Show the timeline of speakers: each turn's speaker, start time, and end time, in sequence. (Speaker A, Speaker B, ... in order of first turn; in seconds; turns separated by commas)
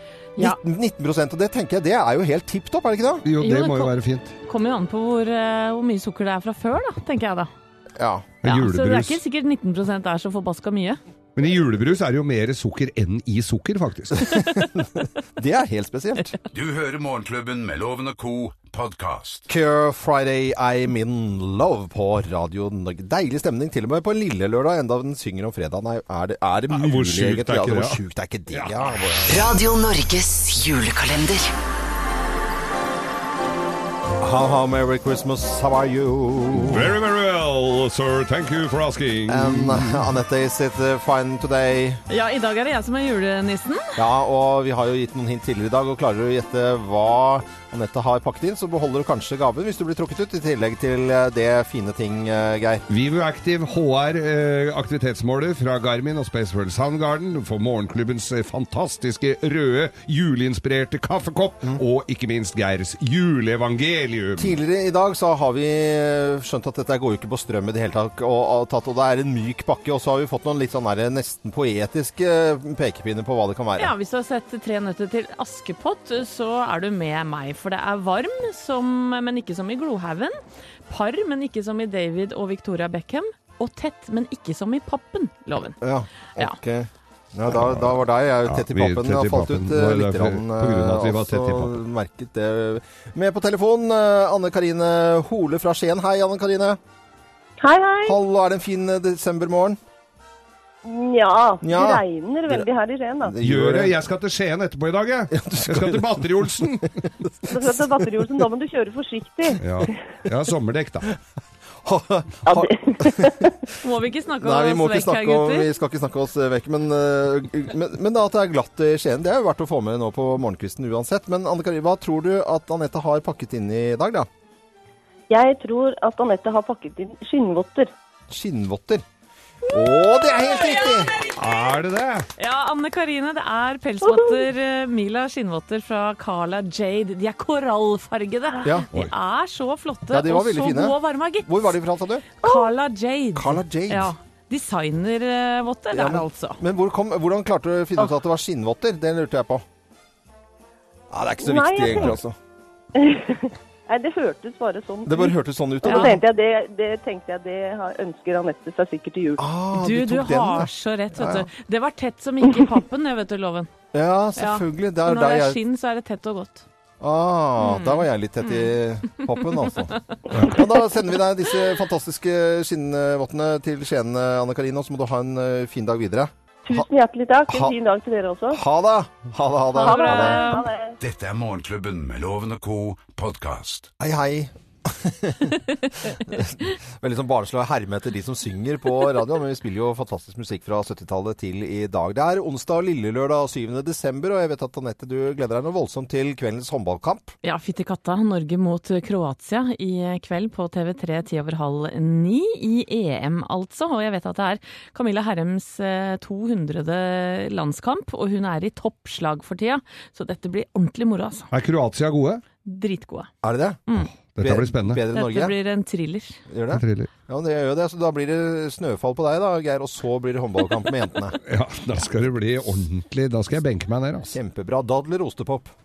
Speaker A: 0.4-3.2, Speaker B: 3.2-4.3, Speaker C: 3.4-7.5, Speaker A: 8.0-8.3, Speaker B: 8.4-9.2, Speaker C: 8.4-11.0, Speaker B: 11.3-14.5, Speaker A: 14.1-16.4, Speaker D: 16.5-19.4, Speaker A: 19.5-29.3, Speaker B: 26.7-28.0, Speaker B: 28.5-28.9, Speaker E: 29.3-31.5, Speaker A: 34.2-36.9, Speaker B: 36.5-40.0, Speaker A: 39.3-42.0, Speaker C: 42.1-43.9, Speaker A: 44.0-52.9, Speaker B: 52.9-64.5, Speaker A: 64.4-73.9, Speaker C: 73.8-80.4, Speaker C: 80.9-85.8, Speaker A: 85.8-96.8, Speaker B: 87.6-91.8, Speaker F: 97.6-98.2, Speaker A: 98.0-99.8, Speaker F: 100.8-103.3, Speaker A: 101.6-102.7, Speaker A: 103.2-104.0, Speaker B: 103.4-106.9, Speaker A: 105.3-108.3, Speaker F: 107.5-109.9, Speaker B: 109.6-111.1, Speaker A: 111.8-113.5, Speaker F: 112.5-113.5, Speaker C: 113.8-115.7, Speaker A: 114.3-124.3, Speaker F: 125.3-127.9, Speaker A: 128.3-129.0, Speaker A: 129.7-131.1, Speaker B: 131.3-132.3, Speaker C: 132.4-141.8, Speaker A: 140.1-142.3, Speaker C: 142.4-146.6, Speaker A: 143.3-144.1, Speaker A: 145.9-149.6, Speaker A: 151.1-152.3, Speaker F: 151.4-152.1, Speaker F: 152.9-159.4, Speaker A: 155.1-156.2, Speaker C: 155.8-156.2, Speaker A: 159.4-161.5, Speaker C: 159.7-163.7, Speaker A: 163.9-165.6, Speaker C: 164.4-166.6, Speaker A: 167.0-176.9, Speaker C: 167.6-168.7, Speaker C: 170.1-170.6, Speaker F: 176.6-178.6, Speaker A: 177.5-177.7, Speaker A: 178.5-180.5, Speaker C: 179.7-180.7, Speaker F: 179.8-180.9, Speaker D: 181.0-183.9, Speaker A: 184.0-197.3, Speaker C: 197.4-211.5, Speaker B: 211.5-212.4, Speaker C: 212.6-213.3, Speaker A: 213.4-213.9, Speaker B: 214.1-215.0, Speaker A: 214.4-215.6, Speaker C: 215.1-216.4, Speaker A: 216.5-221.4, Speaker B: 216.7-217.1, Speaker B: 221.4-224.3, Speaker A: 224.3-225.7